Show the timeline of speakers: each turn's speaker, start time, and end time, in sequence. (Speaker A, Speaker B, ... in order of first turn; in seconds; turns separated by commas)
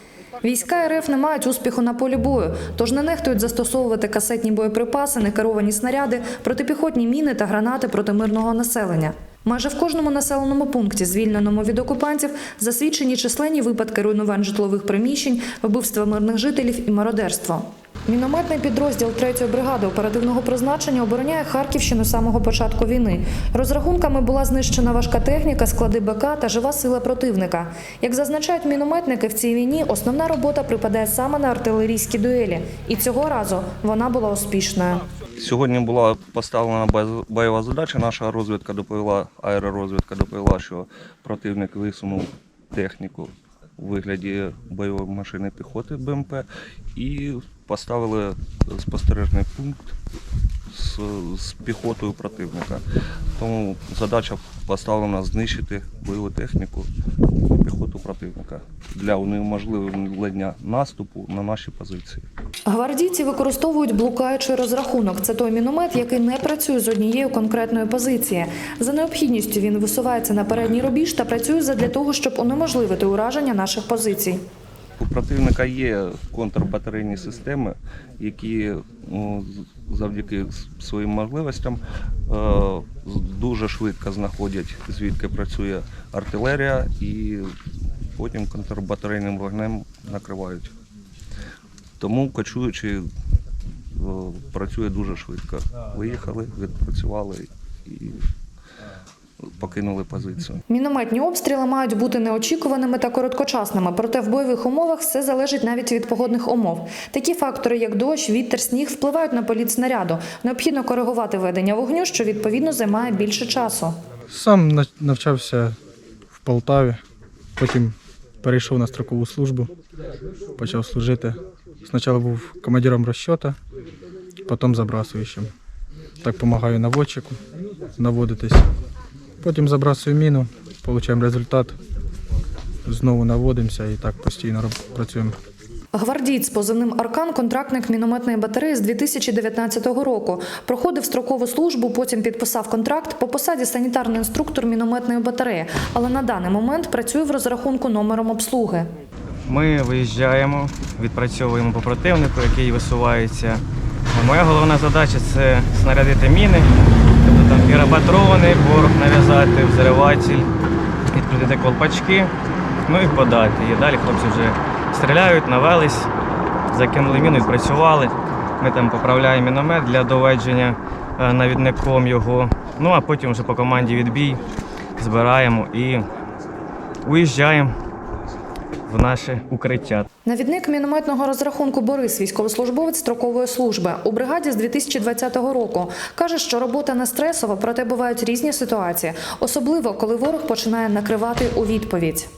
Speaker A: 0.4-35.0, Speaker B: 35.4-49.9, Speaker B: 50.7-52.8, Speaker B: 53.4-56.9, Speaker B: 57.4-62.2, Speaker A: 62.7-74.4, Speaker B: 75.0-87.5, Speaker B: 88.1-90.7, Speaker B: 92.0-93.0, Speaker B: 93.9-98.2, Speaker B: 99.4-100.6, Speaker A: 100.7-114.0, Speaker C: 114.3-115.8, Speaker C: 116.3-117.0, Speaker C: 117.6-119.7, Speaker C: 120.6-123.6, Speaker C: 124.5-125.5, Speaker C: 126.2-127.4, Speaker C: 128.0-128.7, Speaker C: 129.4-131.8, Speaker C: 132.9-135.4, Speaker A: 135.9-148.9, Speaker D: 149.5-156.7, Speaker D: 157.2-160.5, Speaker D: 161.1-162.3, Speaker D: 162.9-166.1, Speaker D: 166.7-174.4, Speaker D: 175.0-176.1, Speaker D: 177.1-177.7, Speaker D: 178.9-180.1, Speaker A: 180.3-192.3